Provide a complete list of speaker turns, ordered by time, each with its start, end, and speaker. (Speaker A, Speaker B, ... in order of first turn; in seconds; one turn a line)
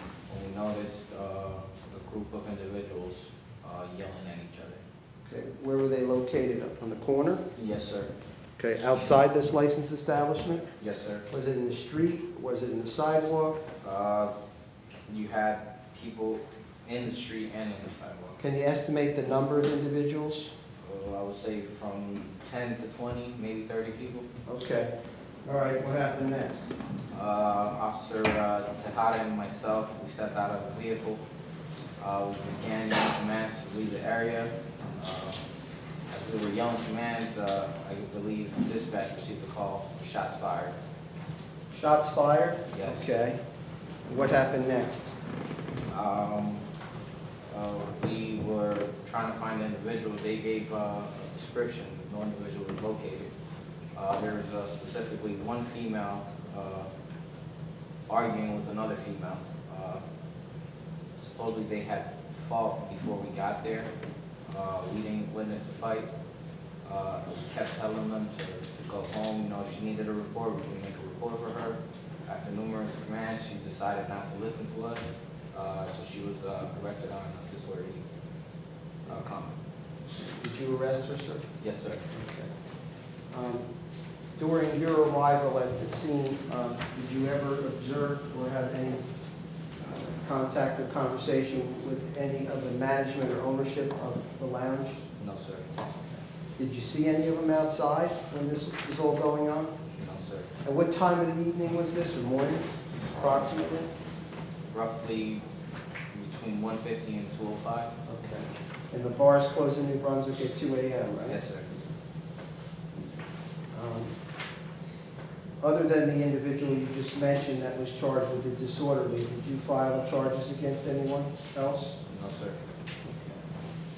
Speaker A: 0.3-4.8
Speaker B: 5.2-7.4
Speaker A: 7.5-8.1
Speaker B: 8.6-10.7
Speaker A: 10.8-11.3
Speaker B: 11.3-13.7
Speaker A: 13.8-14.3
Speaker A: 15.1-18.4
Speaker B: 18.4-20.5
Speaker A: 20.8-24.3
Speaker B: 24.5-24.9
Speaker B: 25.4-26.7
Speaker A: 27.1-31.2
Speaker A: 32.0-35.4
Speaker A: 36.1-40.8
Speaker B: 41.7-43.4
Speaker A: 42.7-43.1
Speaker B: 44.1-45.1
Speaker A: 45.9-46.6
Speaker A: 47.5-53.3
Speaker A: 54.0-56.9
Speaker A: 58.1-60.0
Speaker A: 61.2-63.9
Speaker A: 64.5-66.1
Speaker A: 66.8-78.0
Speaker A: 79.1-79.5
Speaker B: 80.2-81.5
Speaker A: 81.6-82.0
Speaker B: 82.1-82.5
Speaker B: 83.3-83.7
Speaker B: 84.4-89.1
Speaker B: 89.8-95.0
Speaker A: 95.2-95.8
Speaker B: 96.0-99.8
Speaker A: 100.0-100.5
Speaker B: 100.6-103.9
Speaker A: 104.7-105.4
Speaker A: 106.1-107.9
Speaker B: 108.1-111.4
Speaker A: 111.3-111.7
Speaker B: 113.7-114.1
Speaker B: 115.6-122.0
Speaker A: 122.1-122.6
Speaker B: 123.0-123.4